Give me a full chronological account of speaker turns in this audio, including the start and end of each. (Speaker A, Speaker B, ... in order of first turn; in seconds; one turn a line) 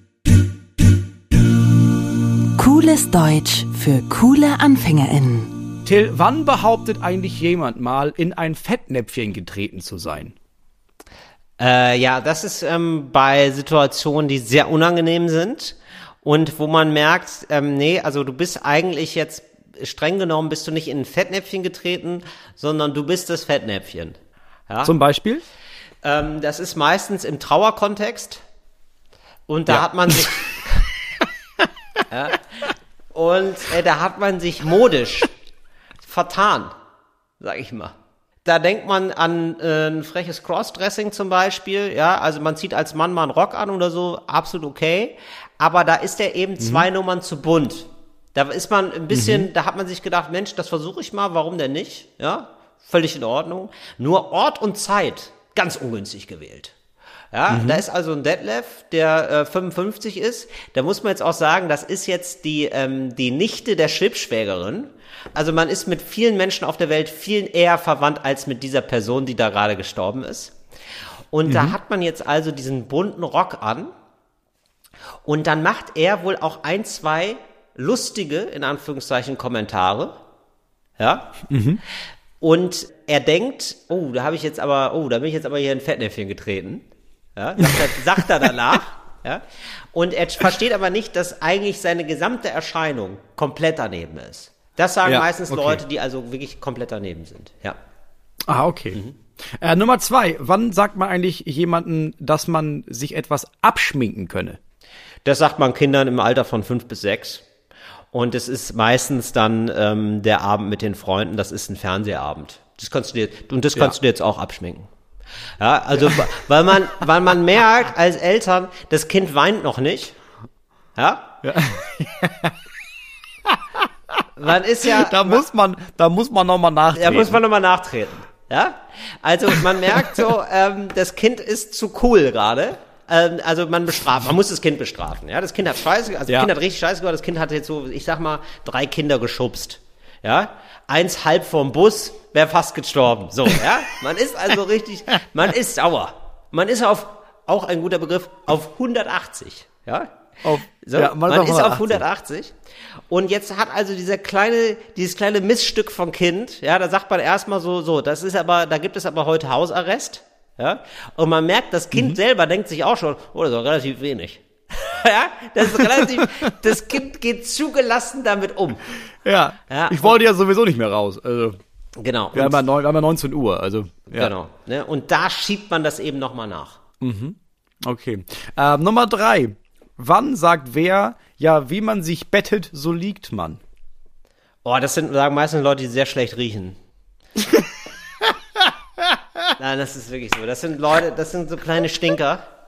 Speaker A: 2.6-5.6
Speaker B: 5.8-10.3
Speaker C: 11.6-24.2
Speaker C: 24.7-24.9
Speaker B: 24.8-25.4
Speaker C: 26.0-28.4
Speaker C: 29.5-30.9
Speaker B: 29.7-30.1
Speaker C: 32.1-35.3
Speaker C: 36.0-36.7
Speaker C: 37.4-56.7
Speaker B: 46.6-46.9
Speaker B: 49.1-49.5
Speaker C: 57.3-70.5
Speaker B: 57.5-57.8
Speaker C: 71.3-73.9
Speaker B: 71.5-71.8
Speaker C: 75.2-80.2
Speaker C: 81.0-81.3
Speaker B: 81.5-81.8
Speaker C: 82.4-86.8
Speaker C: 87.4-89.4
Speaker C: 89.9-97.8
Speaker B: 95.0-95.8
Speaker B: 98.5-104.6
Speaker C: 105.2-107.4
Speaker C: 108.1-114.9
Speaker C: 115.6-120.2
Speaker C: 121.0-121.4
Speaker B: 121.4-122.6
Speaker B: 123.5-124.2
Speaker C: 124.4-125.4
Speaker B: 124.8-127.4
Speaker C: 126.9-152.6
Speaker B: 129.7-130.2
Speaker B: 150.4-152.0
Speaker C: 153.1-168.8
Speaker B: 165.8-166.2
Speaker B: 169.2-171.6
Speaker C: 169.7-170.2
Speaker C: 172.0-172.6
Speaker B: 172.3-174.3
Speaker C: 174.1-176.8
Speaker B: 177.0-183.6
Speaker C: 184.7-186.8
Speaker C: 189.6-192.4